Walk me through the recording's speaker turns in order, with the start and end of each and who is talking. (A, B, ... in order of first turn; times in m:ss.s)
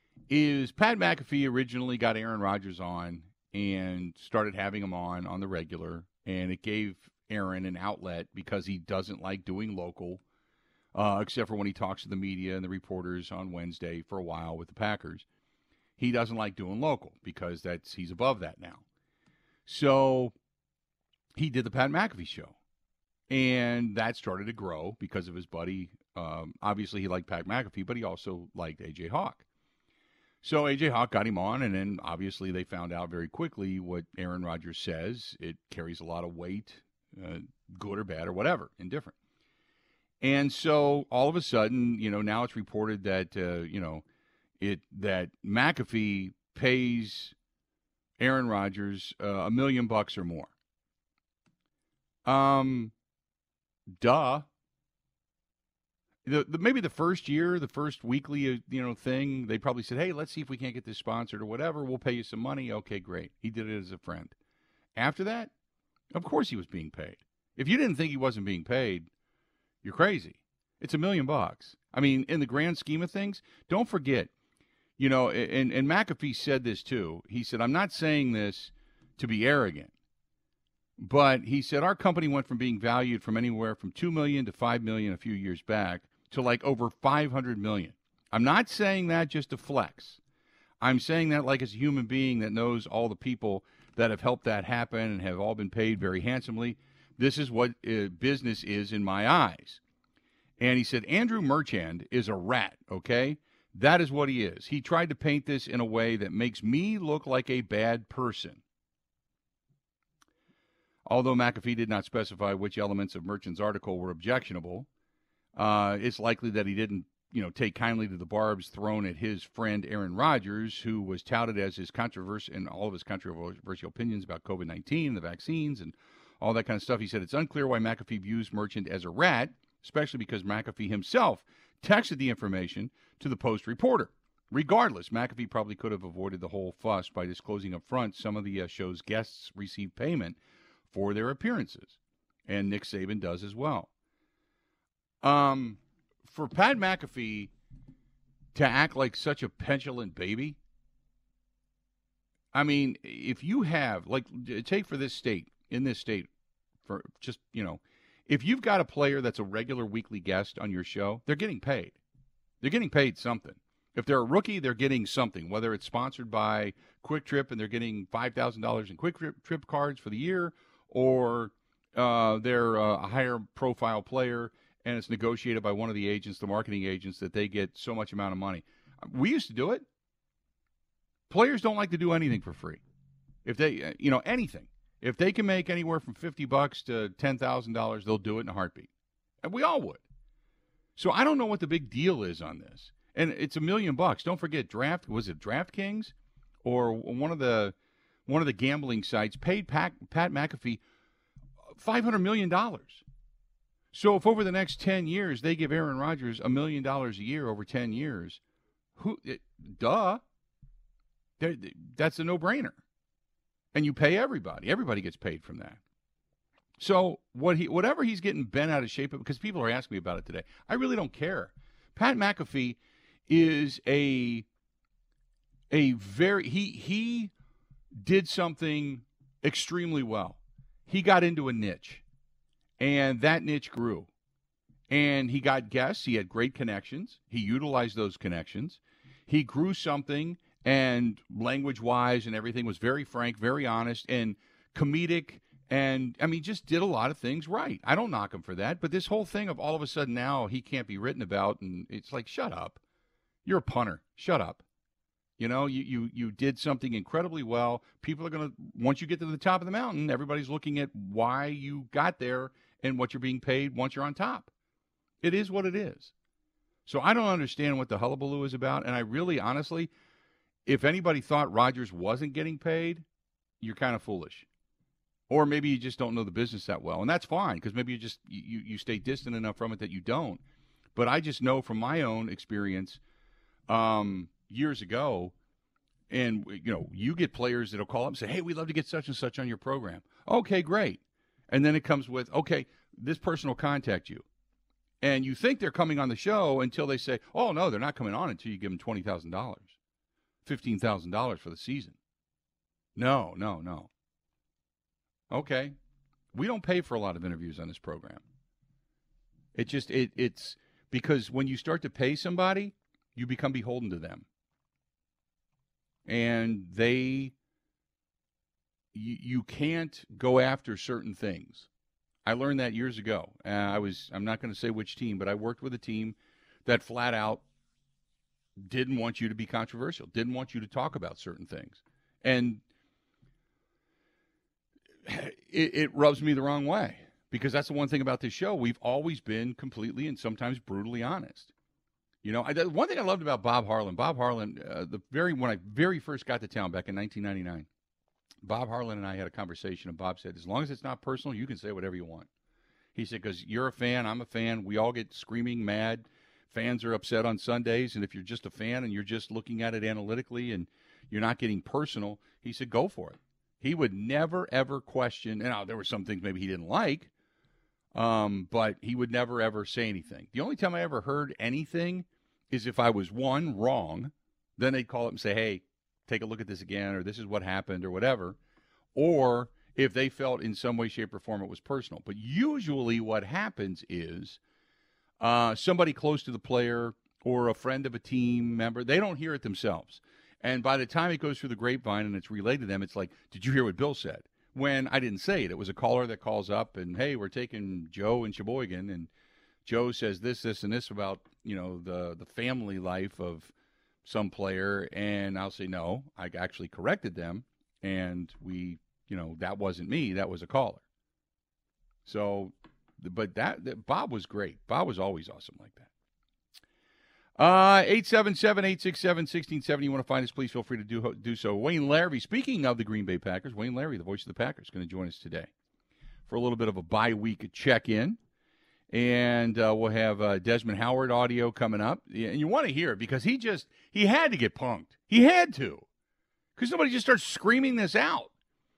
0:00.3-0:10.2 A
0:10.9-0:15.2 A
0:16.0-0:18.8 A
0:19.6-0:20.3 A
0:21.4-0:22.6 A
0:23.3-0:29.4 A
0:30.4-0:39.1 A
0:40.2-0:44.0 A
0:44.6-0:47.3 A
0:48.2-0:50.5 A
0:52.2-0:52.9 A
0:54.0-0:54.5 A
0:56.2-1:04.3 A
1:05.0-1:05.5 A
1:06.1-1:09.1 A
1:09.8-1:14.3 A
1:15.0-1:19.9 A
1:21.0-1:30.2 A
1:30.8-1:39.8 A
1:40.6-1:48.6 A
1:51.0-1:54.9 A
1:55.6-2:20.4 A
2:20.9-2:23.9 A
2:25.2-2:27.5 A
2:28.5-2:30.6 A
2:32.5-2:36.3 A
2:36.8-2:42.0 A
2:42.6-2:59.8 A
3:01.3-3:02.8 A
3:03.4-3:08.9 A
3:09.4-3:10.0 A
3:11.0-3:17.7 A
3:18.3-3:20.8 A
3:21.8-3:23.0 A
3:23.9-3:28.4 A
3:29.0-3:30.2 A
3:31.4-3:32.8 A
3:33.7-3:35.8 A
3:36.8-3:44.4 A
3:45.7-3:47.3 A
3:48.0-3:52.0 A
3:52.8-3:54.1 A
3:54.9-4:12.8 A
4:13.4-4:14.6 A
4:15.4-4:24.5 A
4:25.2-4:26.1 A
4:26.8-4:29.9 A
4:30.6-4:33.0 A
4:33.6-4:34.4 A
4:35.3-4:40.4 A
4:41.0-4:43.0 A
4:43.7-4:45.3 A
4:46.1-4:54.2 A
4:55.0-4:59.8 A
5:00.4-5:02.0 A
5:03.0-5:03.9 A
5:05.3-5:05.7 A
5:06.3-5:08.2 A
5:09.5-5:14.2 A
5:16.0-5:17.3 A
5:18.9-5:21.7 A
5:22.2-5:27.4 A
5:28.6-5:32.6 A
5:35.0-5:41.5 A
5:42.2-5:47.7 A
5:48.4-5:52.3 A
5:52.9-6:07.1 A
6:07.9-6:18.4 A
6:18.9-6:24.4 A
6:25.2-6:39.1 A
6:39.6-6:43.5 A
6:44.0-6:50.8 A
6:52.0-6:55.9 A
6:57.4-7:05.5 A
7:06.3-7:08.2 A
7:08.9-7:15.8 A
7:16.6-7:18.3 A